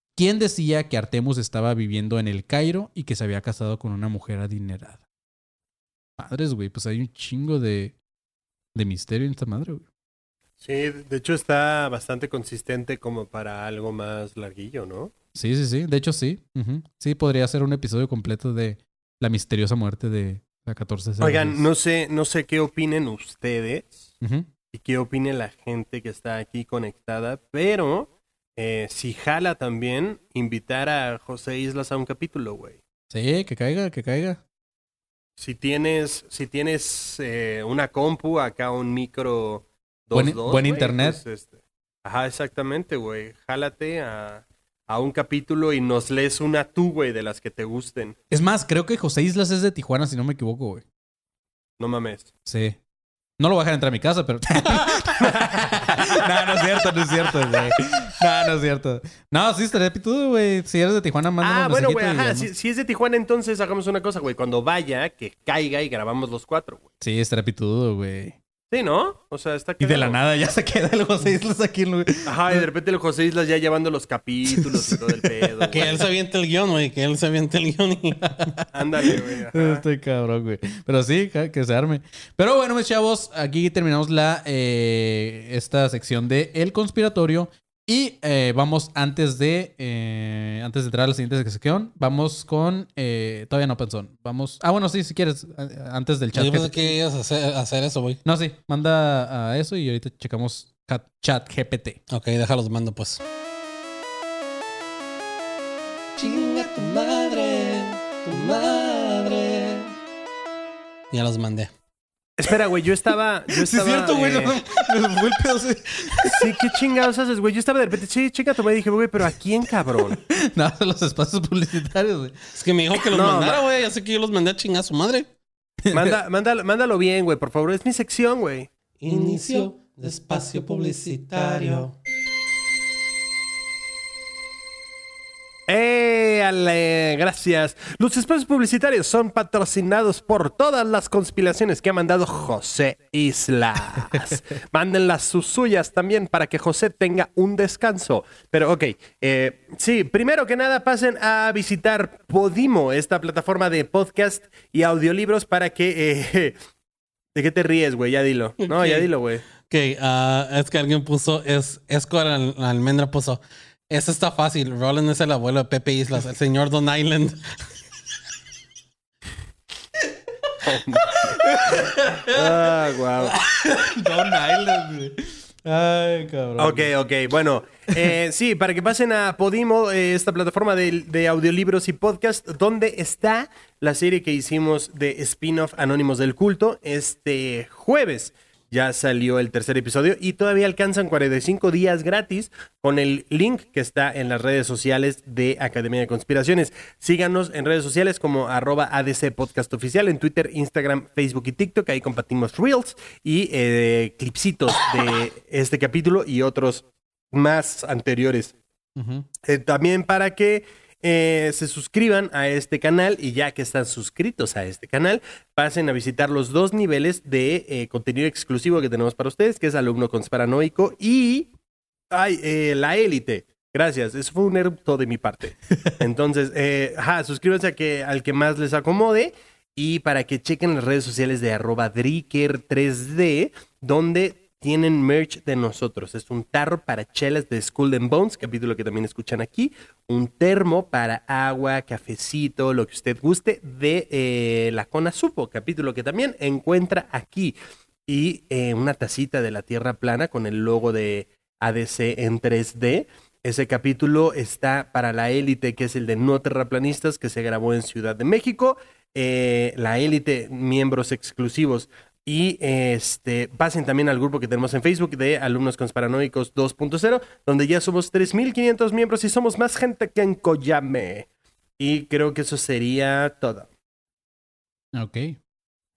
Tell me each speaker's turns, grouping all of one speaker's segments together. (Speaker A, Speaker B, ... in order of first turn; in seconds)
Speaker A: 0.1-5.0, 6.2-7.9, 8.7-9.8, 15.3-21.6, 24.2-24.5, 33.1-34.4, 40.1-41.2, 48.3-50.8, 52.5-52.8, 53.4-62.5, 67.0-68.4, 69.8-72.7, 74.5-75.9, 78.2-96.9, 98.2-102.0, 113.5-116.5, 120.2-122.5, 125.8-126.2, 171.4-172.3, 173.3-176.9, 208.9-209.3, 274.9-275.4
Speaker B: 10.6-15.1, 21.2-24.1, 24.7-32.8, 35.4-48.1, 51.8-52.3, 55.2-56.0, 57.2-57.7, 61.4-66.8, 68.7-70.2, 72.2-76.0, 78.7-79.8, 112.4-114.5, 116.2-120.2, 123.1-123.6, 125.9-128.7, 135.7-156.5, 157.3-159.4, 170.6-171.1, 172.3-173.3, 176.6-208.6, 209.4-221.5, 222.1-247.5, 248.1-271.3, 271.8-273.7
Speaker C: 75.7-78.4, 96.3-98.2, 102.1-103.2, 106.2-109.9, 111.1-111.7, 122.5-125.3, 129.0-131.9, 158.6-159.1, 159.6-167.4